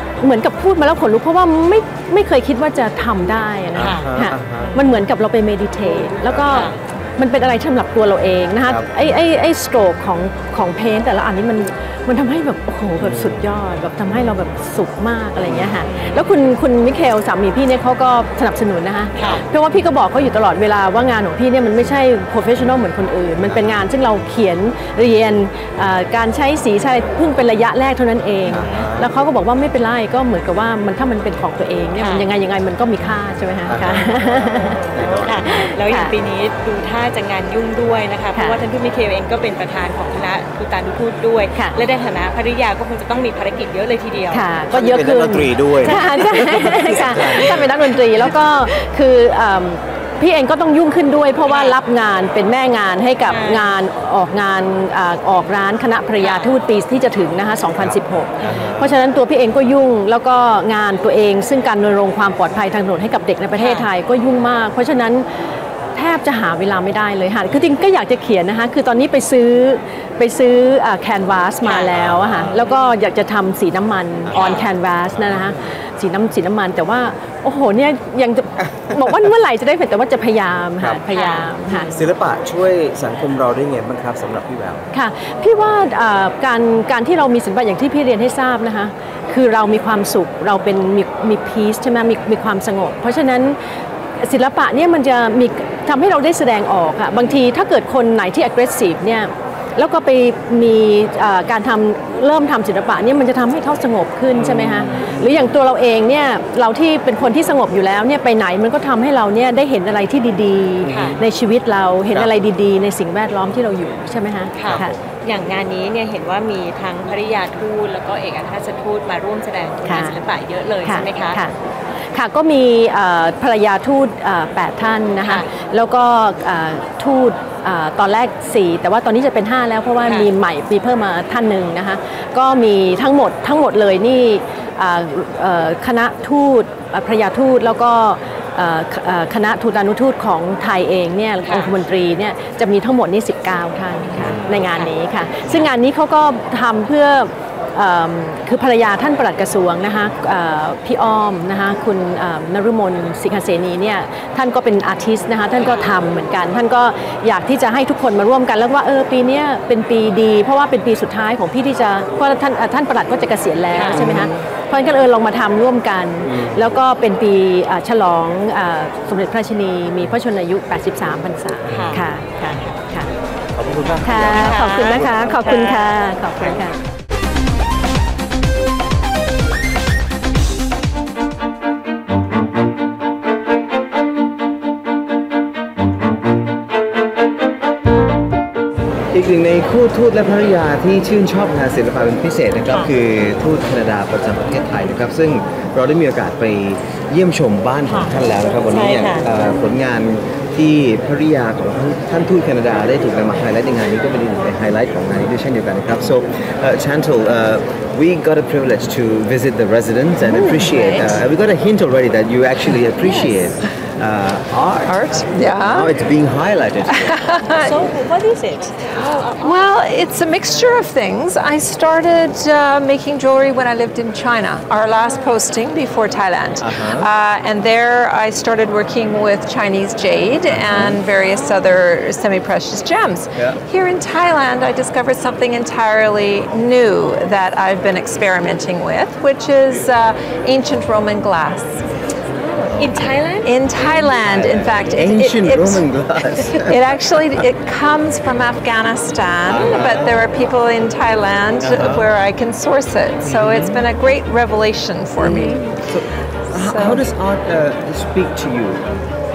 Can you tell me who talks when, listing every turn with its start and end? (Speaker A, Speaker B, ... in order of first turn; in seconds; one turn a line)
Speaker A: 0.2-34.9
Speaker B: 3.7-4.7
Speaker C: 3.8-5.0
Speaker C: 6.5-6.8
Speaker B: 13.0-13.4
Speaker B: 15.4-15.8
Speaker C: 15.8-16.3
Speaker C: 19.1-19.4
Speaker B: 23.4-23.9
Speaker B: 28.5-29.1
Speaker C: 28.5-28.9
Speaker C: 31.9-32.2
Speaker B: 33.6-34.4
Speaker C: 34.7-44.5
Speaker B: 34.9-35.5
Speaker A: 35.4-36.1
Speaker A: 38.3-38.6
Speaker A: 44.3-65.2
Speaker B: 44.7-47.9
Speaker C: 46.1-47.5
Speaker C: 51.5-51.8
Speaker C: 53.3-53.7
Speaker C: 56.2-56.5
Speaker C: 58.4-58.6
Speaker B: 58.4-58.9
Speaker C: 63.5-63.9
Speaker A: 65.9-81.9
Speaker C: 71.6-72.5
Speaker B: 72.0-72.6
Speaker B: 74.3-74.6
Speaker C: 74.3-74.7
Speaker C: 81.1-81.9
Speaker B: 81.9-84.8
Speaker A: 84.9-93.6
Speaker A: 94.2-114.9
Speaker B: 104.3-105.5
Speaker B: 110.8-111.2
Speaker C: 110.9-111.2
Speaker C: 114.6-121.4
Speaker B: 114.6-115.0
Speaker A: 119.8-120.2
Speaker A: 120.8-121.5
Speaker A: 122.1-173.1
Speaker C: 141.4-141.7
Speaker C: 144.1-144.9
Speaker B: 144.3-144.5
Speaker C: 163.7-164.1
Speaker B: 163.9-164.4
Speaker B: 166.2-166.8
Speaker C: 171.7-172.7
Speaker B: 173.6-175.4
Speaker A: 174.0-176.8
Speaker C: 174.2-175.9
Speaker B: 189.1-217.2
Speaker C: 192.7-192.9
Speaker C: 197.8-199.3
Speaker D: 210.2-211.2
Speaker C: 213.0-213.4
Speaker D: 214.8-216.0
Speaker D: 216.9-217.8
Speaker C: 217.5-219.8
Speaker D: 219.3-241.8
Speaker B: 226.6-227.1
Speaker B: 230.5-231.0
Speaker C: 242.4-243.6
Speaker B: 242.8-243.1
Speaker D: 243.4-255.8
Speaker B: 243.7-246.8
Speaker B: 249.5-250.3
Speaker B: 251.6-252.1
Speaker B: 253.2-253.9
Speaker B: 255.2-258.8
Speaker C: 255.3-255.6
Speaker D: 256.5-257.0